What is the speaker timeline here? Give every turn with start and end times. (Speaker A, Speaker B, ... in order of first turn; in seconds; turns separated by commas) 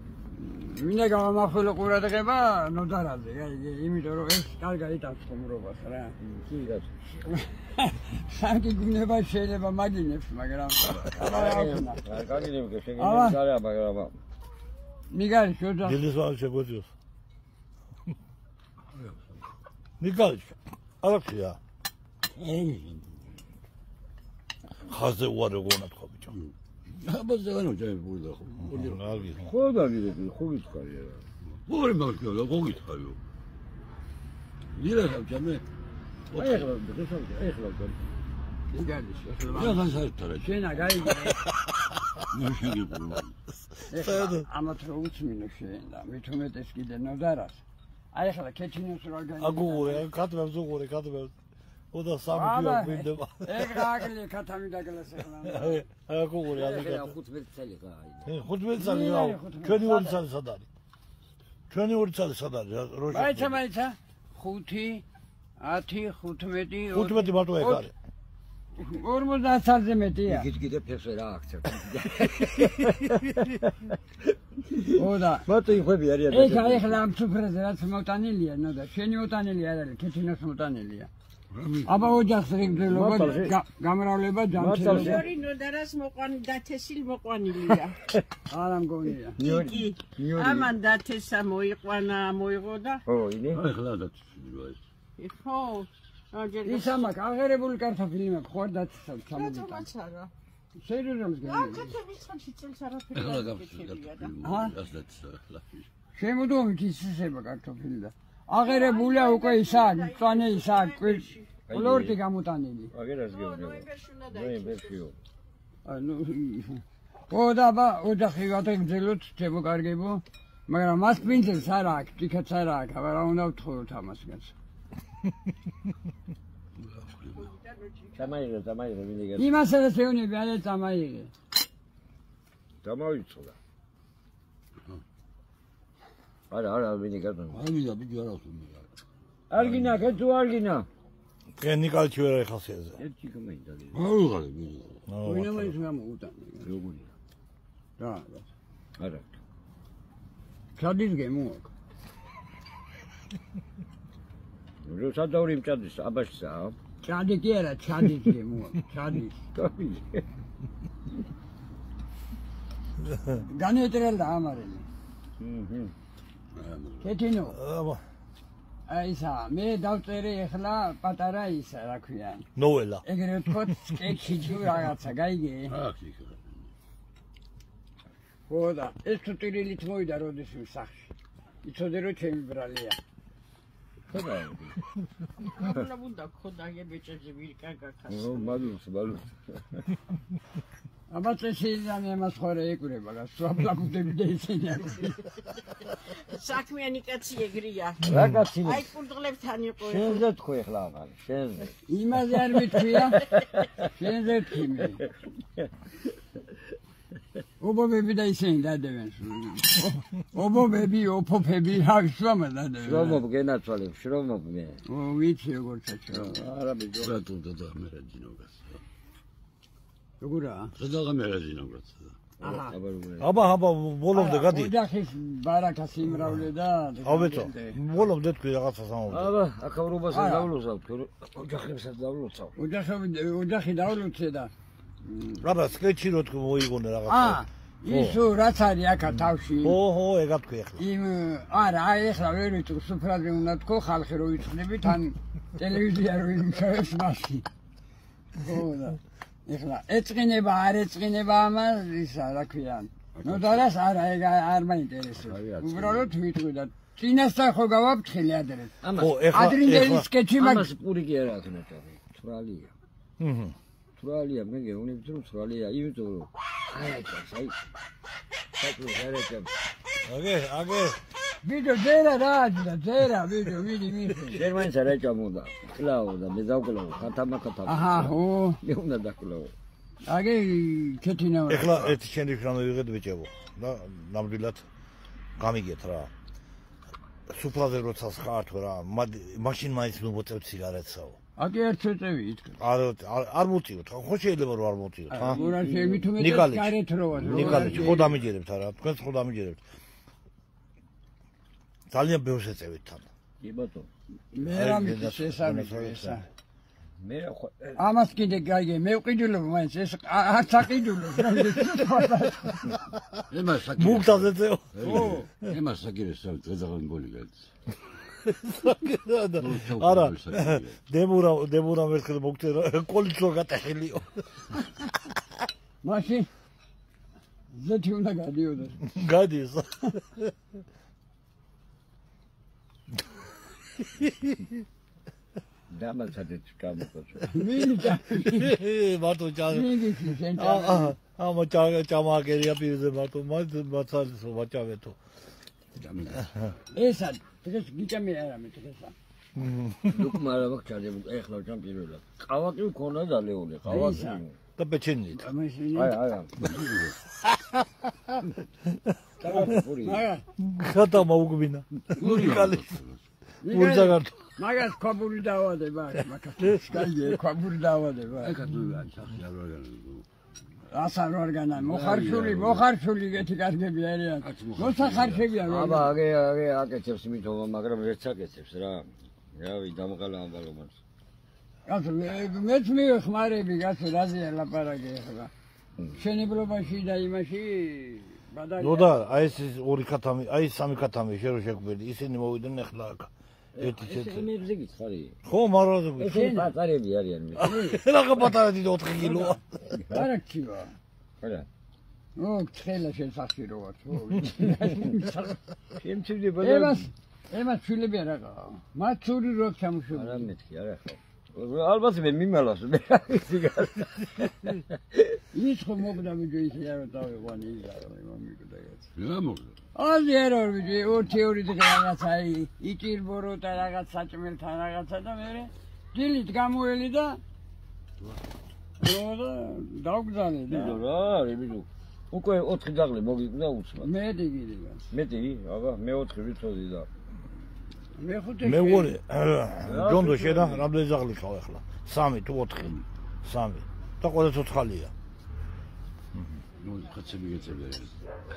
Speaker A: 0.3-6.2, Speaker B: 6.2-6.9, Speaker A: 7.2-12.1, Speaker B: 11.1-14.2, Speaker A: 13.0-13.4, Speaker A: 15.1-16.0, Speaker C: 15.8-16.9, Speaker C: 20.0-21.6, Speaker D: 22.3-23.1, Speaker C: 24.9-26.4, Speaker D: 26.4-29.1, Speaker C: 28.6-29.5, Speaker B: 29.4-31.2, Speaker D: 31.7-33.2, Speaker D: 34.7-35.6, Speaker B: 36.3-38.0, Speaker D: 36.3-36.7, Speaker A: 38.7-39.9, Speaker D: 39.4-41.0, Speaker A: 40.4-41.4, Speaker D: 42.3-43.3, Speaker A: 43.9-47.6, Speaker C: 43.9-44.5, Speaker A: 48.1-50.1, Speaker C: 49.4-51.3, Speaker C: 51.9-53.9, Speaker A: 52.3-55.8, Speaker C: 55.5-57.2, Speaker B: 56.5-58.3, Speaker C: 58.2-60.7, Speaker A: 58.8-60.2, Speaker C: 61.7-63.6, Speaker A: 63.1-65.0, Speaker A: 65.6-67.9, Speaker C: 66.9-67.9, Speaker A: 68.8-70.5, Speaker B: 70.3-74.0, Speaker B: 74.7-77.0, Speaker A: 75.0-75.5, Speaker A: 76.3-81.1, Speaker D: 81.6-81.9, Speaker A: 81.8-85.2, Speaker B: 82.7-83.6, Speaker B: 84.5-85.3, Speaker E: 84.9-88.0, Speaker B: 87.7-88.2, Speaker A: 88.5-89.4, Speaker B: 89.4-90.7, Speaker E: 89.4-93.0, Speaker B: 93.1-93.6, Speaker D: 93.5-94.8, Speaker E: 95.2-97.1, Speaker A: 96.7-99.9, Speaker E: 99.3-100.3, Speaker A: 100.8-102.0, Speaker E: 101.5-104.4, Speaker D: 103.2-105.8, Speaker A: 104.4-104.8, Speaker A: 106.1-112.9, Speaker E: 108.7-111.6, Speaker B: 111.7-112.2, Speaker B: 112.9-115.2, Speaker E: 113.3-114.9, Speaker A: 115.8-124.5, Speaker D: 126.8-127.5, Speaker E: 127.5-128.2, Speaker B: 128.2-129.5, Speaker A: 129.4-131.3, Speaker B: 132.8-133.6, Speaker B: 136.5-137.7, Speaker D: 137.6-138.9, Speaker B: 139.5-140.9, Speaker C: 141.6-143.0, Speaker B: 143.0-144.1, Speaker D: 143.9-145.0, Speaker C: 145.1-145.7, Speaker A: 145.2-146.7, Speaker B: 146.6-147.1, Speaker A: 148.0-148.5, Speaker B: 149.0-149.3, Speaker A: 150.8-151.7, Speaker B: 154.8-156.8, Speaker A: 157.0-159.4, Speaker B: 159.6-160.3, Speaker A: 163.3-164.9, Speaker B: 165.4-165.9, Speaker D: 166.5-167.1, Speaker A: 167.0-167.6, Speaker C: 167.5-168.0, Speaker A: 168.9-172.5, Speaker C: 172.6-173.9, Speaker A: 173.0-175.8, Speaker D: 175.7-176.6, Speaker A: 178.5-181.1, Speaker A: 181.6-183.0, Speaker B: 184.1-184.8, Speaker E: 185.4-188.6, Speaker B: 188.1-189.9, Speaker A: 191.1-195.3, Speaker E: 196.0-200.2, Speaker B: 198.0-198.9, Speaker B: 199.8-201.8, Speaker A: 201.9-205.0, Speaker B: 203.3-203.7, Speaker A: 207.6-213.2, Speaker B: 212.8-214.8, Speaker A: 214.8-216.4, Speaker B: 216.1-217.2, Speaker D: 217.0-218.8, Speaker A: 220.2-220.7, Speaker D: 220.8-222.2, Speaker B: 222.4-223.3, Speaker A: 222.4-222.8, Speaker C: 223.2-224.7, Speaker A: 224.1-227.8, Speaker C: 227.0-229.3, Speaker B: 229.1-232.6, Speaker A: 230.1-230.5, Speaker A: 232.6-234.5, Speaker C: 235.4-238.2, Speaker A: 237.1-239.8, Speaker C: 239.6-240.8, Speaker A: 240.8-247.5, Speaker A: 248.3-258.7, Speaker D: 253.2-253.6, Speaker D: 255.3-256.1, Speaker B: 258.8-259.4, Speaker C: 259.0-260.1, Speaker A: 259.3-260.7, Speaker B: 260.4-262.7, Speaker C: 263.2-263.6, Speaker B: 264.0-267.6, Speaker B: 268.6-269.5, Speaker C: 270.1-271.0, Speaker A: 271.4-274.5, Speaker B: 274.3-279.5, Speaker A: 277.6-278.6, Speaker A: 280.1-282.0, Speaker C: 281.5-284.7, Speaker C: 285.4-286.1, Speaker C: 287.3-291.2, Speaker A: 291.4-292.6, Speaker C: 292.6-295.4, Speaker A: 295.1-298.2, Speaker B: 295.3-296.1, Speaker C: 296.2-299.6, Speaker D: 297.2-297.5, Speaker B: 297.6-297.9, Speaker C: 301.9-303.1, Speaker B: 303.4-303.9, Speaker A: 304.3-306.2, Speaker C: 304.4-306.2, Speaker B: 307.0-307.8, Speaker A: 307.8-312.8, Speaker D: 313.3-314.2, Speaker C: 313.8-315.6, Speaker D: 314.7-317.3, Speaker A: 314.8-315.3, Speaker C: 318.2-324.2, Speaker B: 319.4-320.4, Speaker D: 319.6-320.4, Speaker A: 325.8-326.3, Speaker A: 327.5-328.8, Speaker C: 328.8-330.3, Speaker C: 334.0-334.5, Speaker B: 335.7-337.3, Speaker A: 337.3-338.5, Speaker C: 338.1-345.0, Speaker A: 339.5-341.0, Speaker D: 345.8-346.3, Speaker A: 346.7-348.9, Speaker C: 349.4-350.1, Speaker B: 349.9-354.4, Speaker A: 353.7-354.2, Speaker C: 354.6-355.2, Speaker A: 355.1-356.0, Speaker B: 355.8-356.6, Speaker D: 356.5-357.0, Speaker C: 357.3-357.6, Speaker B: 359.2-360.1, Speaker A: 359.2-360.2, Speaker C: 360.4-362.7, Speaker D: 362.0-363.0, Speaker A: 363.4-368.4, Speaker C: 363.5-364.1, Speaker D: 368.2-370.1, Speaker A: 370.7-375.9, Speaker B: 371.6-372.6, Speaker D: 374.2-375.4, Speaker B: 375.4-380.8, Speaker A: 381.7-385.3, Speaker A: 385.9-389.1, Speaker C: 388.6-394.3, Speaker B: 393.6-395.2, Speaker C: 395.2-396.3, Speaker B: 396.0-397.5, Speaker A: 396.1-396.5, Speaker C: 397.4-399.8, Speaker A: 397.4-397.8, Speaker A: 399.0-400.8, Speaker B: 401.2-401.5, Speaker A: 402.2-405.3, Speaker B: 405.8-406.9, Speaker A: 406.4-410.3, Speaker B: 409.9-415.1, Speaker A: 415.3-418.9, Speaker D: 419.0-419.6, Speaker A: 419.8-427.2, Speaker A: 428.8-430.8, Speaker B: 430.5-433.9, Speaker A: 433.8-434.9, Speaker B: 434.9-436.9, Speaker A: 437.9-439.0, Speaker C: 438.4-444.9, Speaker B: 439.6-440.7, Speaker D: 446.6-447.9